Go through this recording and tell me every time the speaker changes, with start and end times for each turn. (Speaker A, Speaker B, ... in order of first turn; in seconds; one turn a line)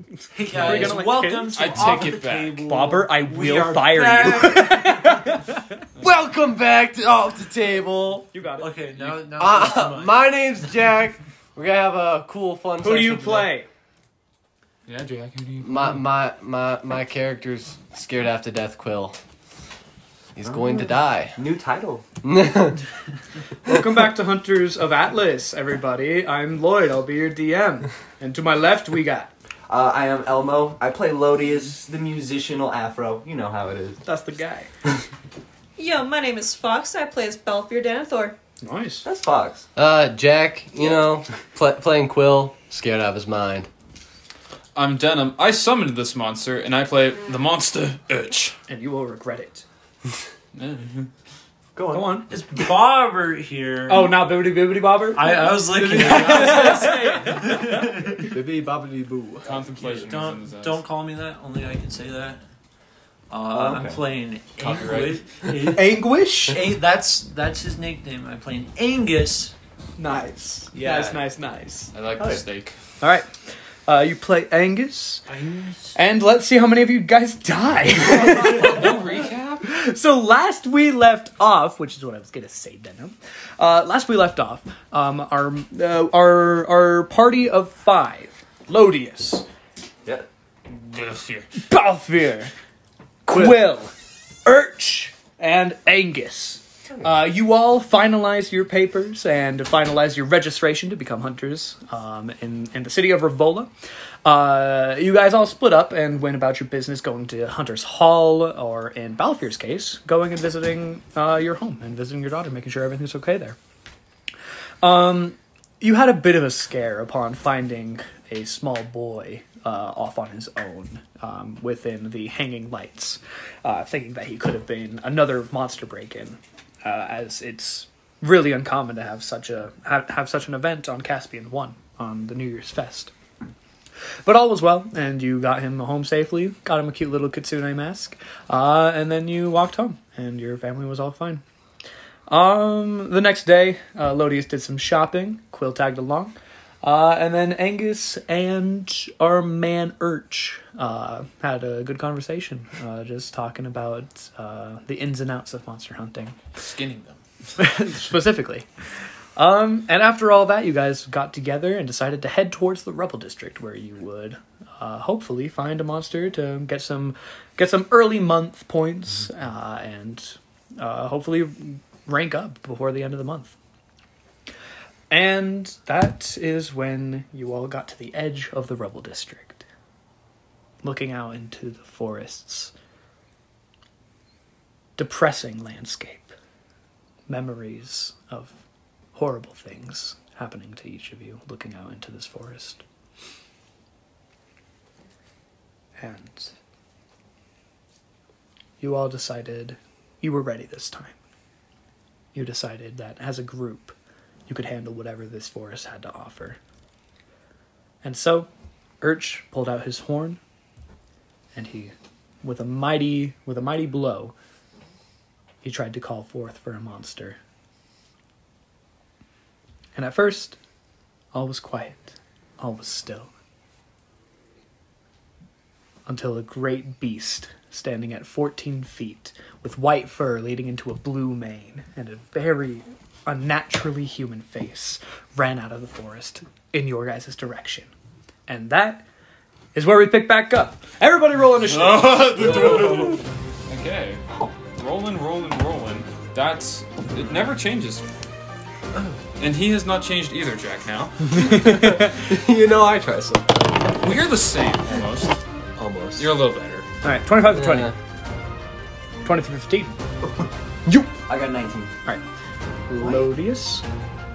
Speaker A: 0.3-5.1
Speaker B: 0.5-5.8
Speaker C: 0.6-0.9
Speaker C: 1.5-2.7
Speaker D: 6.0-8.3
Speaker B: 8.3-8.7
Speaker A: 8.6-10.7
Speaker D: 9.1-13.5
Speaker B: 12.8-13.7
Speaker C: 14.9-16.0
Speaker D: 15.6-19.2
Speaker D: 20.4-21.4
Speaker E: 21.4-22.1
Speaker D: 22.2-22.8
Speaker B: 23.7-29.3
Speaker E: 29.7-34.0
Speaker B: 34.1-34.7
Speaker F: 35.8-38.4
Speaker B: 38.6-39.0
Speaker E: 39.0-39.7
Speaker D: 39.8-43.7
Speaker C: 44.8-48.6
Speaker B: 48.7-49.6
Speaker C: 50.5-51.1
Speaker E: 51.8-52.2
Speaker B: 51.9-52.3
Speaker A: 52.3-54.2
Speaker B: 53.9-57.6
Speaker A: 55.1-58.3
Speaker D: 55.8-56.9
Speaker D: 58.2-59.7
Speaker C: 59.5-60.8
Speaker A: 59.8-62.4
Speaker A: 63.3-69.5
Speaker E: 63.5-64.0
Speaker C: 64.6-65.4
Speaker B: 65.7-66.6
Speaker B: 70.0-71.9
Speaker A: 70.7-71.2
Speaker C: 71.9-72.8
Speaker E: 72.2-72.4
Speaker B: 73.0-73.3
Speaker B: 73.9-75.2
Speaker A: 75.3-75.9
Speaker B: 76.0-79.1
Speaker C: 78.1-79.7
Speaker B: 79.6-89.5
Speaker C: 90.7-91.5
Speaker B: 91.7-92.5
Speaker B: 93.3-93.9
Speaker B: 94.5-103.7
Speaker B: 104.2-113.6
Speaker B: 114.8-133.1
Speaker B: 134.2-141.4
Speaker B: 142.3-156.4
Speaker C: 156.6-157.2
Speaker B: 157.6-158.7
Speaker B: 159.4-173.5
Speaker B: 175.1-179.7
Speaker B: 180.8-182.7
Speaker B: 185.0-186.3
Speaker B: 187.3-188.6
Speaker B: 189.2-192.8
Speaker B: 196.0-196.5
Speaker B: 198.8-201.2
Speaker B: 202.3-204.0
Speaker B: 204.5-206.6
Speaker B: 208.0-208.5
Speaker B: 209.0-210.4
Speaker B: 211.6-214.3
Speaker B: 215.6-217.4
Speaker B: 220.0-220.6
Speaker B: 221.3-223.3
Speaker B: 226.1-237.9
Speaker B: 238.5-239.1
Speaker B: 239.7-243.1
Speaker C: 241.6-248.0
Speaker C: 249.4-251.5
Speaker D: 251.4-254.1
Speaker B: 251.5-252.1
Speaker C: 254.0-255.4
Speaker D: 255.8-256.3
Speaker C: 256.1-256.9
Speaker B: 257.0-257.9
Speaker D: 257.4-257.9
Speaker B: 259.2-259.9
Speaker B: 260.9-261.1
Speaker E: 261.3-261.9
Speaker B: 262.9-263.9